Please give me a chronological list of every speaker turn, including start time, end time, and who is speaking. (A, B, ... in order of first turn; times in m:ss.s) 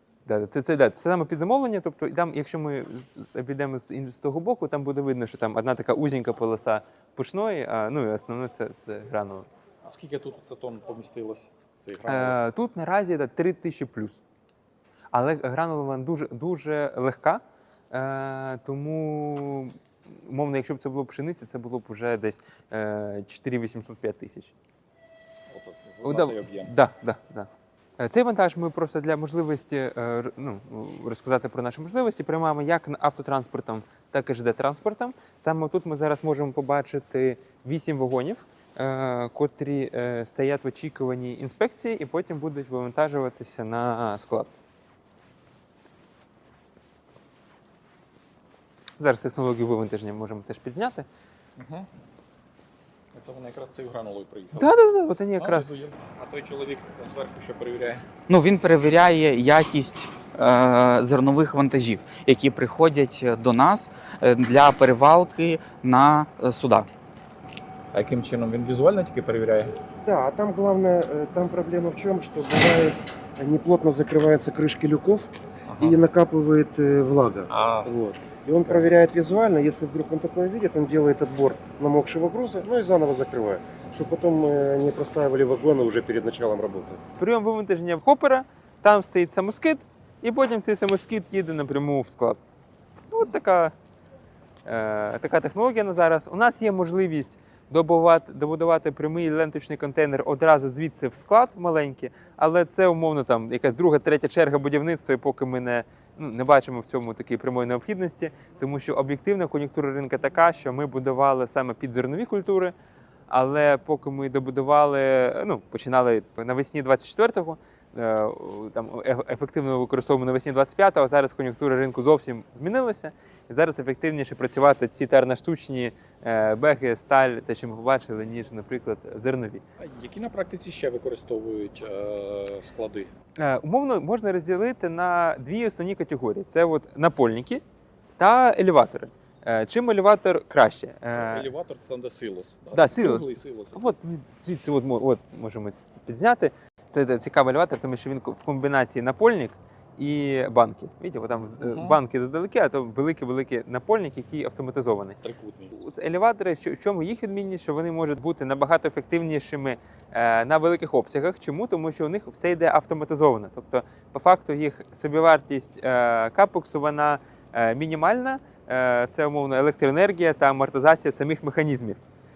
0:00.3-0:09.5 A
0:09.8-0:12.4 B
0:12.1-0:14.2 A
0:15.1-0:24.5 A
0:25.5-0:26.7 B
0:26.0-0:44.5 A
0:49.0-0:51.1 A
0:51.6-0:51.9 B
0:53.1-0:54.8 B
0:54.6-0:55.7 A
0:55.4-0:58.0 B
0:58.3-1:06.9 C
1:07.9-1:09.7 B
1:10.0-1:27.0 D
1:15.7-1:16.0 B
1:17.5-1:17.9 B
1:27.2-1:32.4 A
1:33.1-1:33.7 A
1:34.6-1:52.7 A
1:53.3-2:09.6 A
2:09.8-2:13.1 B
2:13.4-2:17.6 A
2:18.2-2:21.5 A
2:21.1-2:23.9 B
2:22.7-2:35.2 A
2:31.6-2:32.0 B
2:35.2-2:35.7 B
2:35.7-2:52.0 A